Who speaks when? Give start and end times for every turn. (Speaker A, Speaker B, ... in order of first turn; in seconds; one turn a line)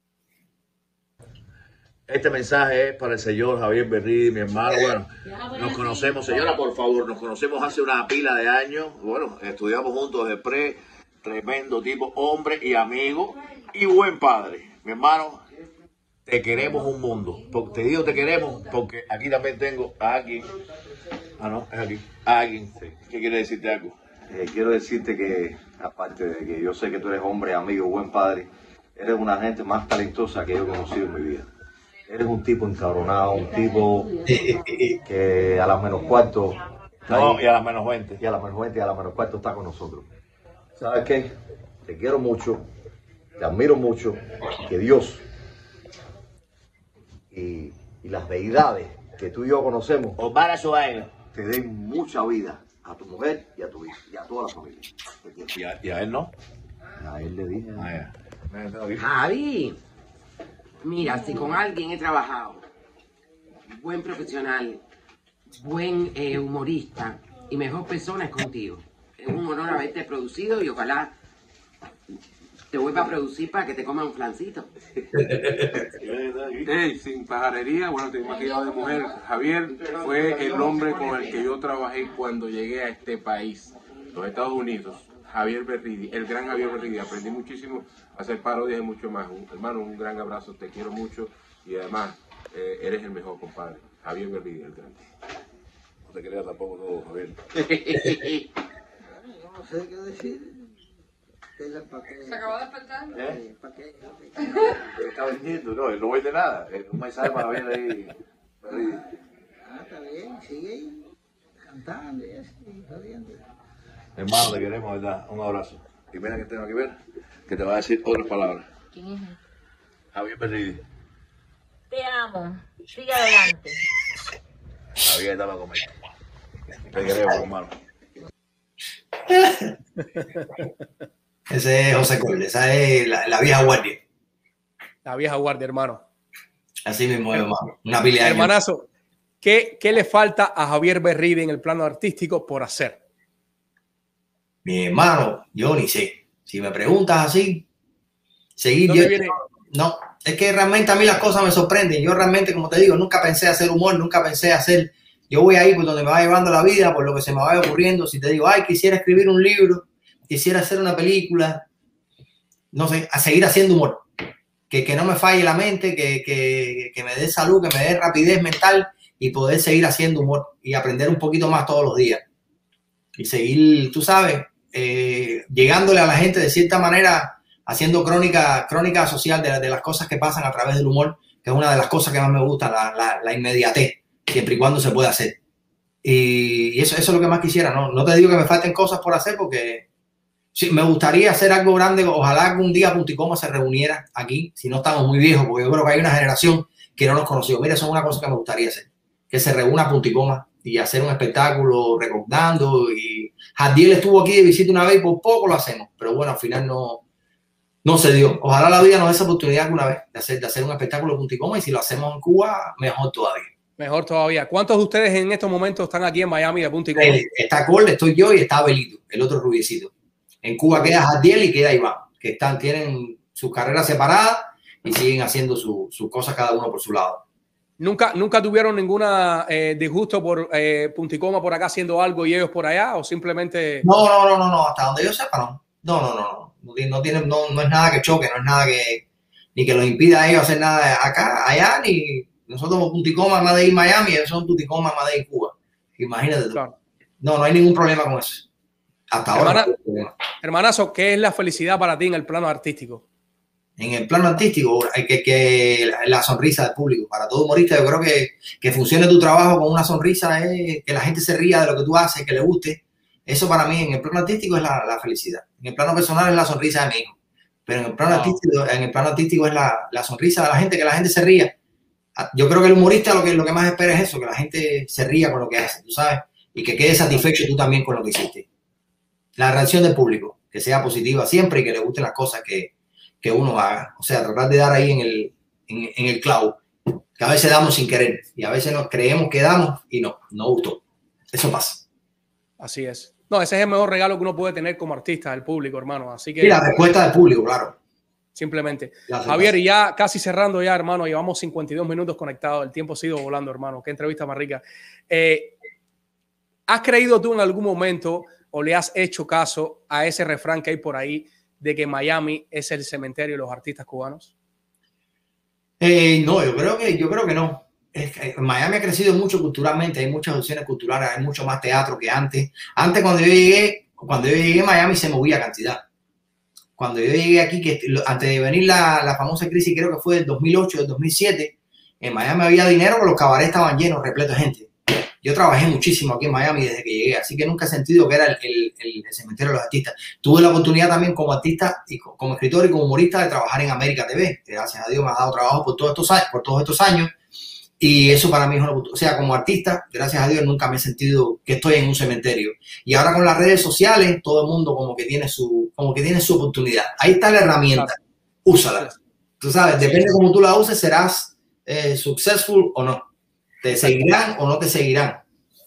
Speaker A: 2.1-15.4
Speaker A: 16.2-20.4
Speaker A: 21.4-24.0
Speaker B: 24.3-31.4
Speaker B: 32.1-34.1
Speaker C: 34.2-35.0
Speaker B: 35.0-36.6
Speaker A: 37.0-38.2
Speaker B: 37.1-37.4
Speaker B: 38.2-40.1
Speaker B: 40.8-41.3
Speaker B: 41.9-42.6
Speaker B: 43.4-45.2
Speaker B: 47.3-50.2
Speaker A: 50.2-51.1
Speaker B: 51.2-55.5
Speaker A: 55.5-56.3
Speaker B: 57.0-57.9
Speaker A: 57.7-59.0
Speaker D: 59.0-59.8
Speaker D: 60.8-62.6
Speaker D: 63.8-64.8
Speaker D: 65.6-71.1
Speaker D: 72.7-74.7
Speaker C: 75.2-75.7
Speaker A: 75.9-76.7
Speaker E: 76.6-95.0
Speaker A: 79.9-81.2
Speaker A: 96.0-98.0
Speaker D: 97.8-98.4
Speaker F: 99.3-100.5
Speaker F: 101.6-104.3
Speaker A: 103.1-103.4
Speaker A: 104.9-108.1
Speaker A: 108.6-109.0
Speaker F: 109.7-111.0
Speaker F: 111.7-113.4
Speaker A: 114.2-116.9
Speaker A: 117.5-118.6
Speaker G: 118.9-119.3
Speaker A: 120.1-120.8
Speaker G: 121.9-123.7
Speaker A: 125.0-125.9
Speaker A: 126.9-127.7
Speaker C: 129.3-129.7
Speaker C: 131.5-134.0
Speaker H: 135.0-136.0
Speaker C: 136.8-138.5
Speaker H: 138.2-138.9
Speaker H: 139.4-143.0
Speaker C: 144.6-147.6
Speaker C: 148.6-161.6
Speaker H: 148.8-149.3
Speaker C: 162.7-164.0
Speaker C: 164.7-172.2
Speaker C: 173.2-185.4
Speaker C: 186.0-189.8
Speaker C: 190.5-207.0
Speaker C: 207.8-213.5
Speaker H: 213.8-217.2
Speaker C: 216.9-219.9
Speaker C: 220.4-227.2
Speaker H: 227.8-233.9
Speaker C: 233.8-239.0
Speaker C: 239.5-246.6
Speaker C: 247.2-248.4
Speaker C: 249.1-250.1
Speaker H: 249.3-249.7
Speaker H: 250.4-253.0
Speaker C: 253.8-267.1
Speaker C: 267.7-271.5
Speaker H: 268.1-268.4
Speaker C: 272.2-278.4
Speaker C: 279.4-282.7
Speaker C: 283.2-286.6
Speaker C: 287.2-290.8
Speaker C: 291.3-291.8
Speaker H: 292.6-296.6
Speaker C: 296.4-297.8
Speaker H: 298.3-305.5
Speaker C: 299.1-299.5
Speaker H: 306.7-314.3
Speaker C: 315.8-325.8
Speaker C: 326.8-347.1
Speaker C: 347.8-358.9
Speaker C: 359.4-363.0
Speaker H: 359.8-360.1
Speaker C: 363.6-365.2